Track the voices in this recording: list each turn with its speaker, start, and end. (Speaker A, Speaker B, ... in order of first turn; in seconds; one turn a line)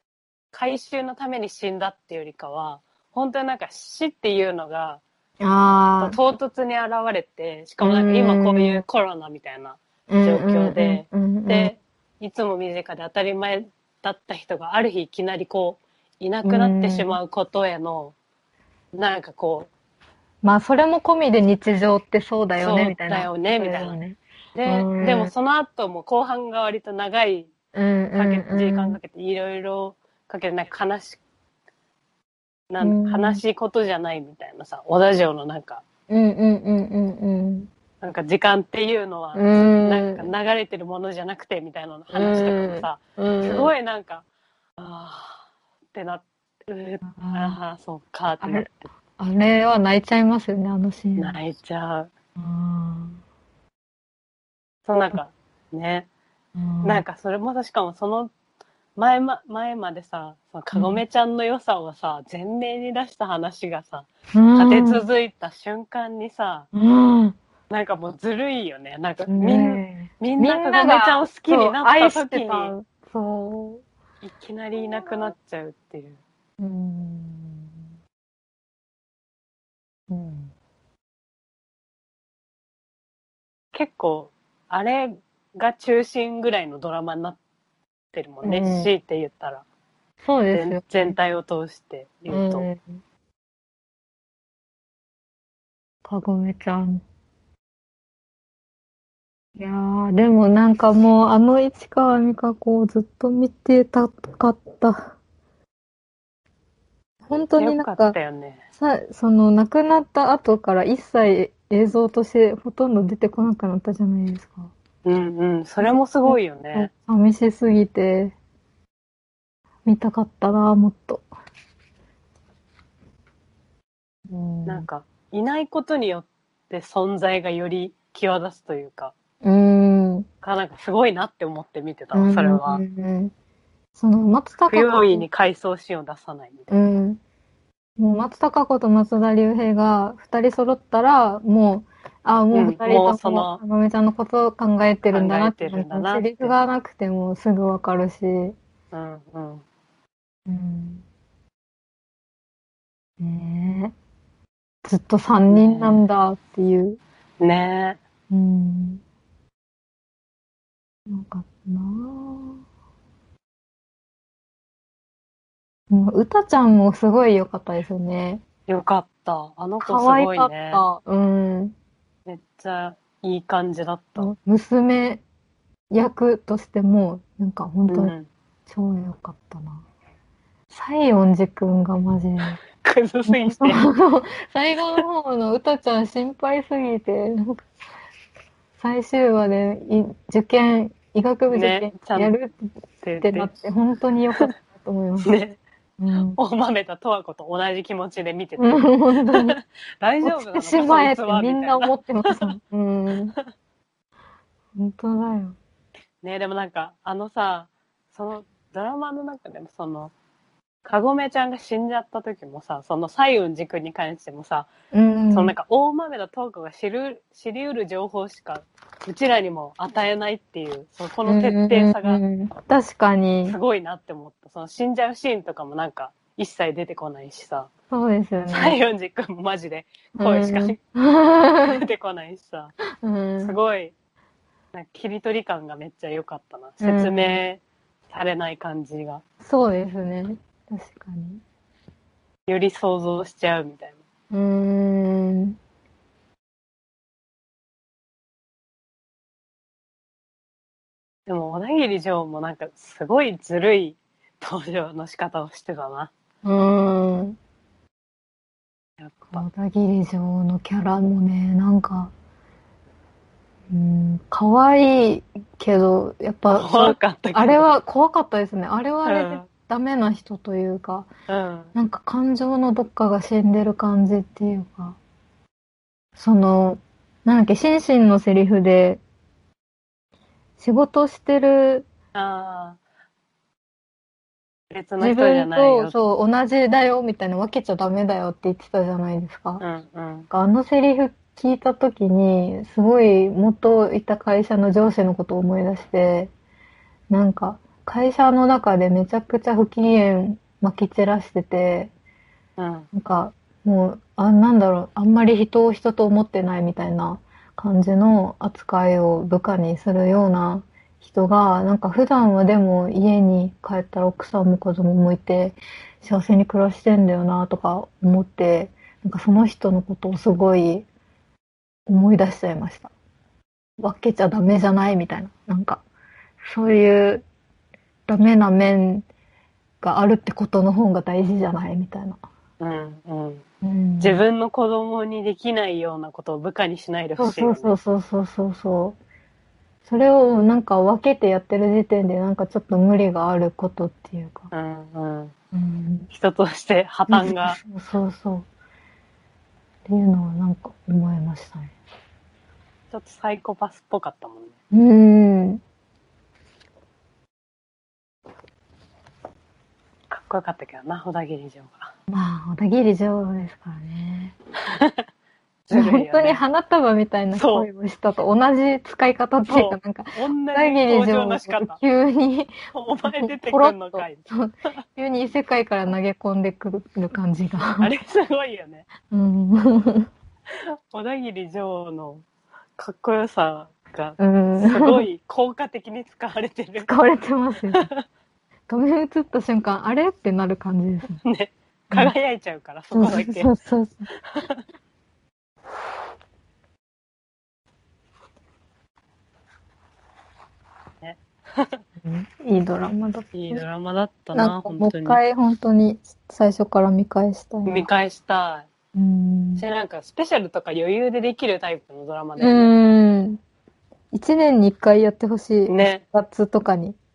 Speaker A: 0.5-5.0
Speaker B: 5.4-6.2
Speaker A: 6.0-18.1
Speaker B: 7.8-8.8
Speaker B: 10.1-11.7
Speaker B: 16.4-17.2
Speaker A: 18.9-19.7
Speaker B: 20.4-25.3
Speaker A: 22.6-24.0
Speaker A: 24.5-27.5
Speaker B: 27.7-29.0
Speaker A: 28.1-31.2
Speaker A: 32.7-35.8
Speaker B: 32.8-33.4
Speaker B: 36.1-37.7
Speaker A: 38.0-44.2
Speaker B: 39.3-40.3
Speaker B: 42.1-43.7
Speaker A: 44.8-48.9
Speaker B: 47.0-47.6
Speaker B: 48.4-51.4
Speaker A: 51.2-52.1
Speaker B: 52.4-53.2
Speaker A: 54.9-56.1
Speaker B: 56.5-57.0
Speaker A: 56.8-58.3
Speaker A: 59.0-66.7
Speaker B: 60.7-61.0
Speaker B: 64.3-65.0
Speaker B: 66.7-67.4
Speaker A: 67.7-72.7
Speaker B: 69.3-73.8
Speaker A: 74.2-76.2
Speaker B: 76.6-77.7
Speaker B: 80.1-80.5
Speaker A: 83.7-87.4
Speaker A: 88.1-89.6
Speaker B: 88.4-88.9
Speaker B: 90.2-91.2
Speaker A: 90.5-92.7
Speaker B: 92.3-92.8
Speaker B: 96.0-97.0
Speaker B: 99.6-105.1
Speaker B: 107.2-108.2
Speaker A: 107.5-108.6
Speaker B: 108.8-114.7
Speaker A: 115.0-116.9
Speaker B: 115.8-118.3
Speaker B: 119.8-121.2
Speaker B: 124.3-124.9
Speaker A: 124.7-129.1
Speaker B: 129.4-130.3
Speaker A: 130.4-132.8
Speaker B: 132.1-133.3
Speaker B: 133.9-135.2
Speaker A: 134.7-136.7
Speaker B: 136.7-137.2
Speaker B: 138.0-148.6
Speaker A: 142.5-143.6
Speaker A: 145.1-146.5
Speaker A: 148.9-149.6
Speaker B: 150.5-151.0
Speaker B: 153.2-153.9
Speaker B: 154.8-157.0
Speaker A: 155.5-156.0
Speaker A: 157.4-158.0
Speaker B: 158.3-159.0
Speaker B: 161.1-162.6
Speaker B: 165.9-168.4
Speaker A: 168.7-170.8
Speaker B: 169.8-171.7
Speaker A: 172.2-174.3
Speaker B: 174.2-175.2
Speaker B: 175.9-178.1
Speaker A: 177.9-178.3
Speaker B: 178.7-179.8
Speaker B: 180.7-182.6
Speaker A: 182.8-183.8
Speaker B: 183.3-187.6
Speaker B: 188.8-192.6
Speaker A: 191.5-192.3
Speaker A: 193.0-193.5
Speaker B: 193.2-195.3
Speaker A: 195.2-195.6
Speaker B: 196.0-196.4
Speaker A: 196.3-202.5
Speaker B: 198.6-199.6
Speaker B: 200.2-203.3
Speaker B: 204.7-205.6
Speaker A: 206.2-210.1
Speaker A: 210.8-214.7
Speaker B: 214.9-215.5
Speaker A: 215.3-222.2
Speaker B: 221.2-223.6
Speaker A: 223.4-227.7
Speaker B: 227.9-228.8
Speaker A: 228.5-230.8
Speaker B: 230.2-231.8
Speaker A: 231.6-232.7
Speaker B: 233.0-233.6
Speaker A: 233.4-233.9
Speaker A: 234.7-239.2
Speaker B: 236.8-237.4
Speaker B: 239.4-241.4
Speaker A: 242.5-244.0
Speaker B: 244.3-245.6
Speaker A: 251.3-256.1
Speaker B: 256.4-257.4
Speaker A: 259.0-259.4
Speaker B: 259.3-262.1
Speaker B: 263.7-271.1
Speaker A: 266.5-267.7
Speaker A: 269.0-269.4
Speaker A: 271.3-271.7
Speaker B: 271.7-275.0
Speaker B: 276.2-279.0
Speaker B: 280.6-281.9
Speaker A: 282.1-282.8
Speaker A: 284.7-285.9
Speaker B: 285.0-289.6
Speaker A: 289.6-290.3
Speaker B: 290.3-296.3
Speaker B: 297.1-301.9
Speaker A: 302.6-302.9
Speaker B: 302.9-320.9
Speaker B: 321.9-322.9
Speaker B: 323.8-325.8
Speaker B: 326.4-327.2
Speaker B: 328.1-329.1
Speaker B: 329.8-332.2
Speaker A: 332.6-333.4
Speaker B: 333.6-334.2
Speaker A: 334.0-337.8
Speaker B: 337.2-339.0
Speaker B: 339.8-344.5
Speaker A: 344.5-345.3
Speaker B: 345.5-346.1
Speaker A: 346.1-347.6
Speaker B: 347.1-348.5
Speaker B: 349.9-351.7
Speaker A: 352.9-354.5
Speaker B: 354.7-355.6
Speaker A: 360.1-361.9
Speaker B: 362.1-364.3
Speaker A: 364.7-365.0
Speaker A: 365.7-366.4
Speaker B: 365.7-377.9
Speaker A: 367.3-367.7
Speaker A: 369.5-371.8
Speaker A: 372.7-374.2
Speaker A: 377.8-378.9
Speaker B: 379.1-380.1
Speaker A: 380.5-382.2
Speaker A: 382.8-386.9
Speaker B: 384.2-385.1
Speaker B: 386.9-387.9
Speaker A: 387.7-388.0
Speaker B: 388.7-391.2
Speaker A: 391.2-393.5
Speaker B: 392.9-394.1
Speaker A: 394.2-394.6
Speaker A: 401.0-401.8
Speaker B: 402.0-403.6
Speaker A: 403.3-405.2
Speaker B: 404.3-407.9
Speaker A: 407.6-408.7
Speaker B: 408.9-409.6
Speaker A: 409.6-412.7
Speaker B: 412.4-413.4
Speaker B: 414.1-417.0
Speaker A: 415.7-416.0